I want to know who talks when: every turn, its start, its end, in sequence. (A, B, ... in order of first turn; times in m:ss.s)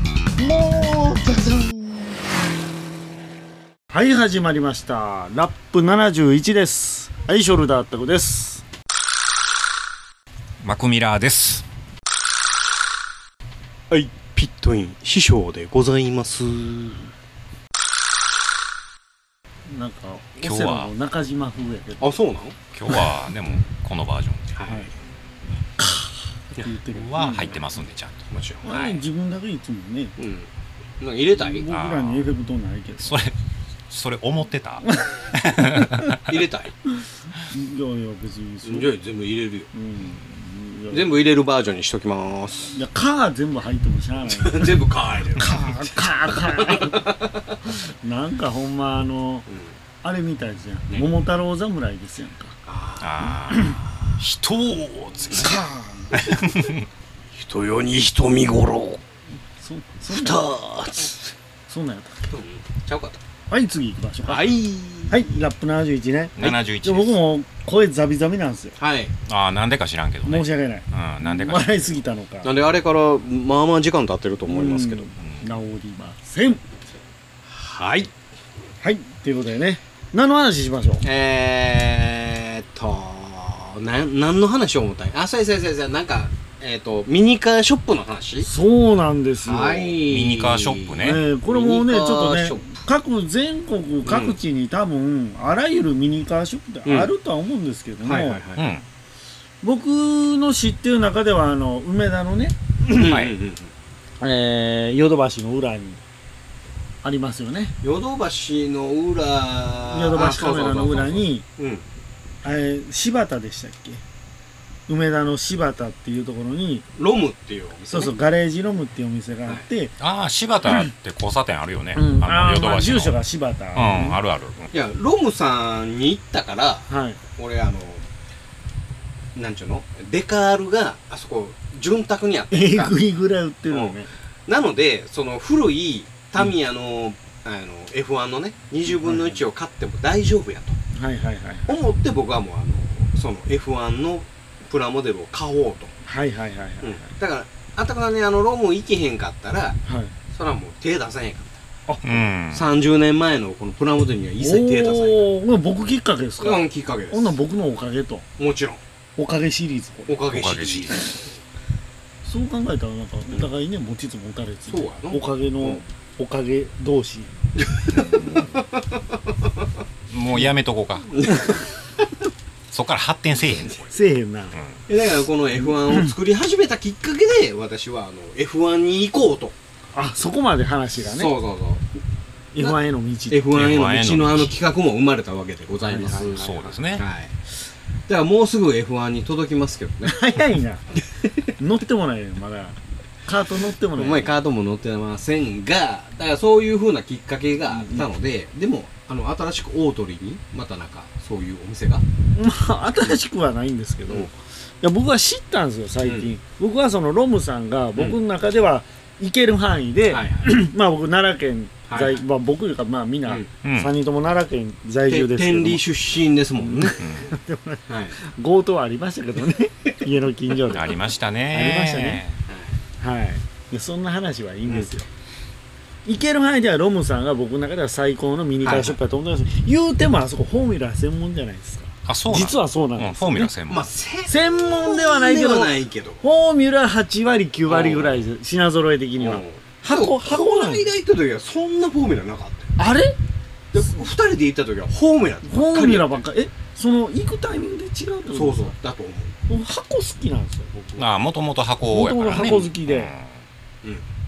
0:00.4-0:02.2 A
0:03.9-0:08.6 A
0:10.6-0:11.7 B
0:13.9-0:17.0 C
0:19.7-0:22.1 A
0:20.4-0:20.9 B
0:22.0-0:22.6 C
0:22.7-0:24.5 B
0:24.5-0:24.9 C
0:25.8-0:27.6 A
0:26.9-0:28.2 B
0:28.3-0:29.0 C
0:28.6-0:30.2 A
0:30.2-0:30.5 C
0:31.0-0:31.6 C
0:31.4-0:33.2 A
0:31.7-0:32.2 B
0:33.0-0:33.4 B
0:33.9-0:36.4 B
0:34.8-0:36.1 A
0:36.2-0:36.8 C
0:37.5-0:38.9 A
0:38.6-0:39.7 C
0:39.7-0:41.2 A
0:40.9-0:42.7 C
0:42.7-0:44.8 A
0:44.3-0:45.8 C
0:45.4-0:47.1 A
0:46.3-0:47.6 C
0:47.7-0:49.4 A
0:49.5-0:49.7 C
0:50.0-0:52.6 A
0:52.7-0:54.2 C
0:53.0-0:55.6 B
0:55.4-0:56.2 A
0:56.2-0:56.9 B
0:57.3-0:59.0 C
0:59.6-1:00.5 A
1:00.1-1:01.3 C
1:01.7-1:02.3 A
1:02.3-1:03.2 C
1:03.5-1:04.6 A
1:04.3-1:05.2 C
1:05.1-1:08.8 A
1:06.4-1:07.2 B
1:08.8-1:09.1 C
1:09.3-1:11.8 B
1:10.3-1:12.5 A
1:12.4-1:15.1 C
1:14.5-1:16.6 A
1:15.2-1:15.4 B
1:17.5-1:18.1 C
1:18.8-1:21.0 A
1:21.0-1:28.5 C
1:28.4-1:30.0 A
1:29.4-1:32.8 C
1:30.0-1:31.2 B
1:31.0-1:38.4 A
1:34.0-1:34.4 C
1:36.9-1:37.1 C
1:38.0-1:38.7 C
1:38.6-1:38.8 B
1:39.6-1:43.1 A
1:42.9-1:43.7 C
1:43.1-1:43.4 B
1:44.2-1:46.0 A
1:47.0-1:47.7 A
1:47.8-1:51.8 C
1:49.9-1:51.4 A
1:52.4-1:54.0 A
1:54.9-1:56.8 A
1:57.0-1:58.2 C
1:57.9-1:59.9 A
2:00.0-2:03.2 B
2:02.0-2:04.2 A
2:03.8-2:04.7 B
2:04.7-2:08.1 C
2:06.9-2:07.2 A
2:09.3-2:13.0 C
2:12.5-2:14.1 A
2:13.7-2:14.0 C
2:14.5-2:20.8 C
2:19.0-2:19.4 A
2:20.9-2:21.7 A
2:21.7-2:25.9 C
2:26.1-2:27.1 A
2:26.8-2:29.8 C
2:29.9-2:30.1 A
2:30.3-2:31.6 C
2:32.0-2:32.7 B
2:32.5-2:35.2 C
2:34.4-2:38.2 A
2:36.4-2:37.4 C
2:38.4-2:38.8 C
2:39.2-2:40.2 A
2:40.1-2:41.2 C
2:40.2-2:41.0 B
2:42.2-2:47.3 A
2:44.7-2:45.8 C
2:47.6-2:49.6 C
2:47.9-2:48.6 B
2:50.1-2:51.1 B
2:51.1-2:52.0 C
2:52.7-2:53.9 B
2:53.9-2:54.6 A
2:54.5-2:54.8 B
2:54.9-2:59.6 C
2:55.8-2:56.1 A
2:59.9-3:01.4 A
3:01.0-3:01.9 C
3:02.5-3:03.4 A
3:03.3-3:07.4 C
3:03.5-3:04.6 B
3:05.8-3:06.8 A
3:06.3-3:07.0 B
3:08.1-3:10.3 C
3:10.1-3:10.8 A
3:11.6-3:14.3 A
3:14.0-3:22.0 C
3:17.8-3:18.1 A
3:22.3-3:35.8 A
3:26.0-3:26.3 C
3:30.1-3:30.5 C
3:31.9-3:32.2 C
3:33.6-3:33.9 B
3:35.1-3:37.0 C
3:36.6-3:41.0 A
3:37.0-3:37.4 B
3:37.9-3:38.2 C
3:40.7-3:42.4 B
3:41.5-3:42.2 A
3:42.5-3:42.8 C
3:43.0-3:45.1 A
3:46.1-3:53.5 A
3:48.6-3:49.0 C
3:52.1-3:53.9 B
3:53.7-3:56.2 C
3:54.3-4:00.8 A
3:57.7-3:58.2 C
3:59.2-4:02.7 C
4:02.8-4:03.2 A
4:03.7-4:06.2 C
4:05.5-4:08.7 A
4:08.3-4:09.4 C
4:09.5-4:11.0 A
4:11.0-4:13.4 B
4:11.9-4:13.1 A
4:12.4-4:12.7 C